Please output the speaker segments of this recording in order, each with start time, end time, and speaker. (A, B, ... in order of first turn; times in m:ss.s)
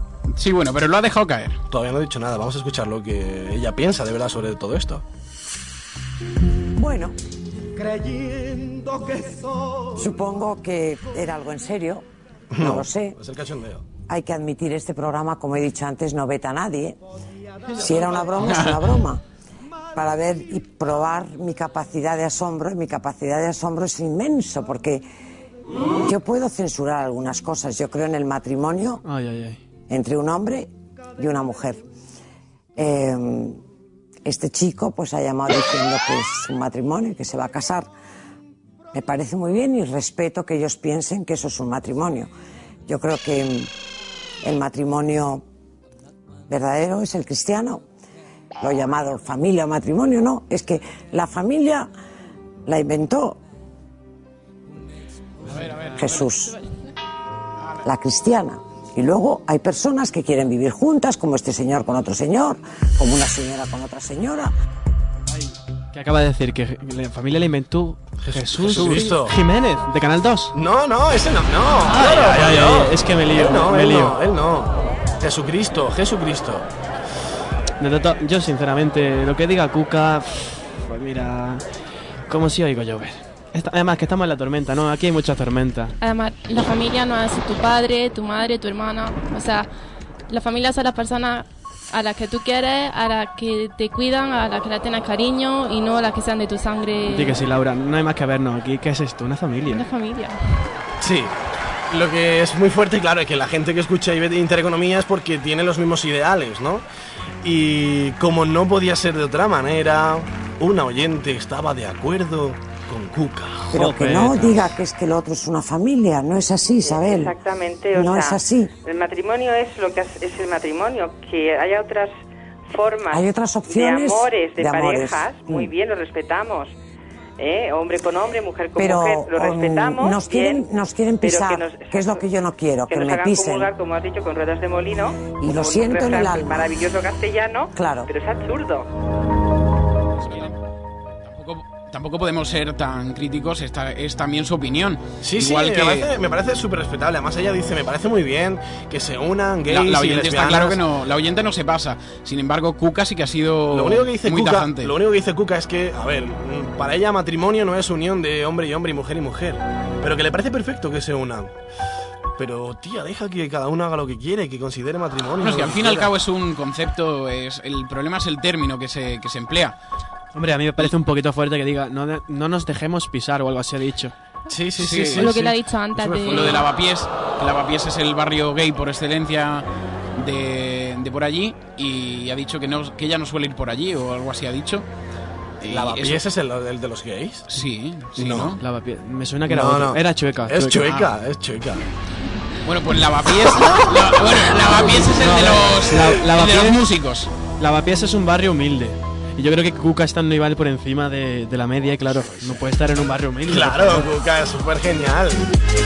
0:00.3-0:01.6 A
0:01.7-0:05.0 B
0:06.8-0:07.2 C
0:09.9-0:12.0 C
0:12.5-0:13.8 B
0:12.6-0:13.2 C
0:14.1-0:17.0 C
0:17.7-0:19.2 C
0:18.4-0:18.8 A
0:19.9-0:25.0 C
0:26.0-0:29.0 C
0:29.0-0:29.6 D
0:29.9-0:31.8 C
0:32.8-0:33.6 C
0:34.2-0:37.9 C
0:38.9-0:42.3 C
0:42.9-0:43.7 C
0:44.4-0:45.4 C
0:46.5-0:47.8 C
0:48.6-0:51.9 C
0:52.6-0:53.4 C
0:55.5-0:56.3 A
0:56.0-0:56.5 C
0:57.6-0:57.8 A
0:57.8-1:04.5 C
1:05.3-1:10.5 D
1:08.2-1:09.3 B
1:10.5-1:16.7 B
1:11.8-1:14.1 D
1:17.8-1:21.6 D
1:22.3-1:25.9 D
1:26.0-1:29.7 E
1:30.3-1:37.4 E
1:37.1-1:39.8 D
1:39.7-1:40.6 E
1:41.0-1:41.4 B
1:41.9-1:46.8 B
1:47.4-1:53.7 B
1:53.7-1:57.4 C
1:53.7-1:54.7 D
1:56.8-2:06.7 F
1:57.9-1:58.7 C
2:03.1-2:05.7 C
2:07.4-2:10.7 F
2:08.8-2:13.7 C
2:11.2-2:12.2 F
2:12.9-2:18.9 F
2:15.4-2:16.7 C
2:17.7-2:18.1 C
2:20.2-2:20.6 A
2:21.2-2:26.1 A
2:25.2-2:30.8 B
2:29.7-2:34.9 A
2:33.7-2:41.5 B
2:42.4-2:46.1 B
2:45.4-2:49.8 A
2:50.3-2:54.1 D
2:54.5-2:56.6 B
2:54.8-2:55.3 A
2:55.1-2:56.6 E
2:56.2-3:04.8 A
3:05.6-3:06.2 A
3:05.7-3:07.5 B
3:07.5-3:08.6 A
3:08.2-3:08.6 B
3:08.6-3:10.8 D
3:09.5-3:11.8 B
3:10.8-3:11.1 A
3:12.6-3:17.3 A
3:15.0-3:16.8 D
3:17.6-3:24.1 D
3:23.5-3:25.4 B